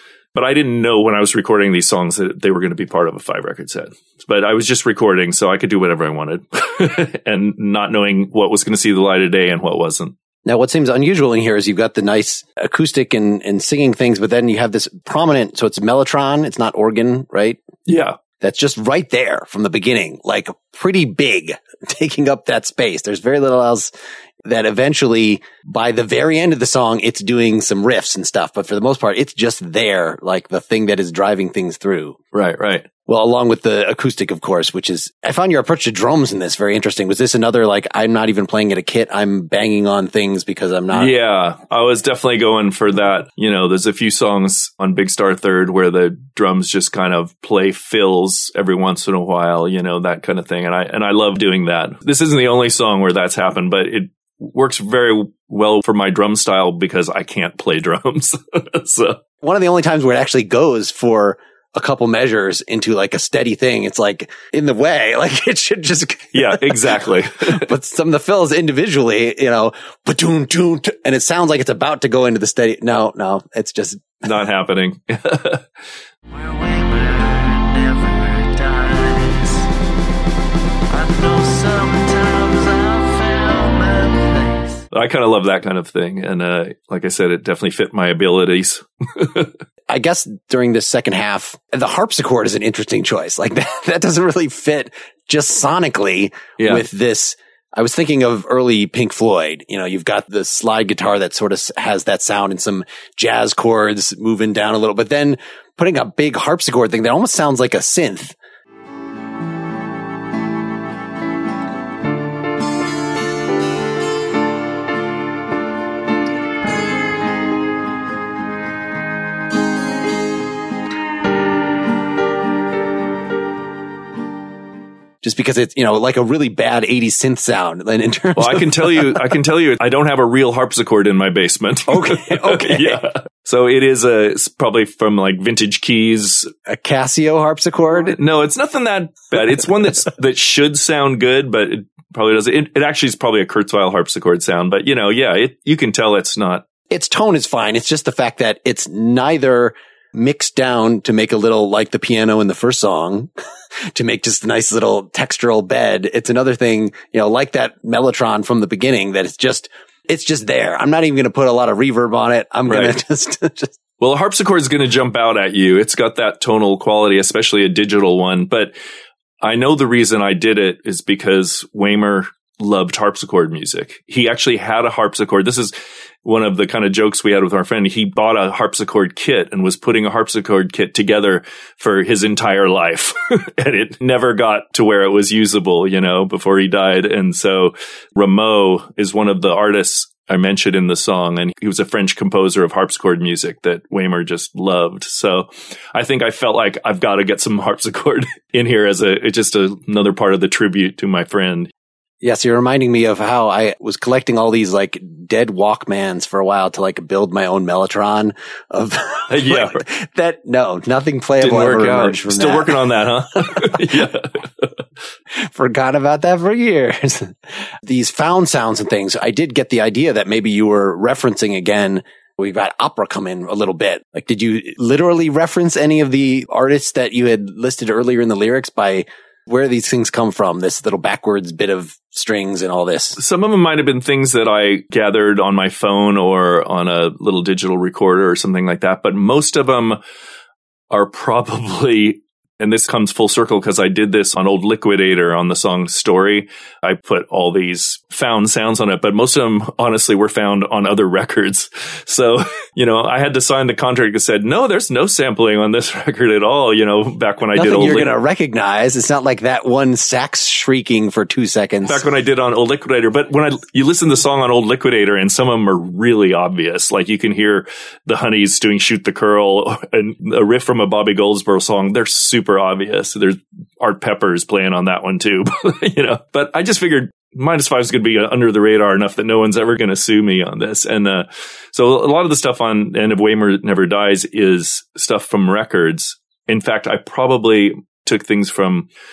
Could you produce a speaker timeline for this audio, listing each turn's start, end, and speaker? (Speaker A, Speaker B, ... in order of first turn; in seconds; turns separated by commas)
Speaker A: 0.3-10.1, Speaker B: 10.4-17.6, Speaker A: 17.9-18.2, Speaker B: 18.4-23.9, Speaker B: 24.4-32.2, Speaker A: 32.3-32.9, Speaker B: 33.0-41.1, Speaker A: 40.9-59.2, Speaker B: 59.4-74.2, Speaker A: 66.3-67.7, Speaker A: 74.2-75.6, Speaker C: 76.3-79.7, Speaker C: 80.9-84.8, Speaker A: 84.9-89.5, Speaker B: 89.9-108.3, Speaker A: 96.6-96.8, Speaker B: 125.2-129.2, Speaker A: 128.4-136.5, Speaker B: 131.9-133.1, Speaker B: 136.7-138.2, Speaker A: 138.1-146.6, Speaker B: 146.9-153.3, Speaker B: 153.9-163.8, Speaker A: 162.7-162.9, Speaker A: 164.0-168.7, Speaker A: 169.4-201.7, Speaker B: 202.2-212.8, Speaker A: 209.3-209.8, Speaker A: 211.4-214.8, Speaker B: 213.4-214.0, Speaker B: 215.3-233.2, Speaker A: 233.2-240.0, Speaker A: 240.9-258.1, Speaker B: 257.5-262.0, Speaker A: 261.8-288.9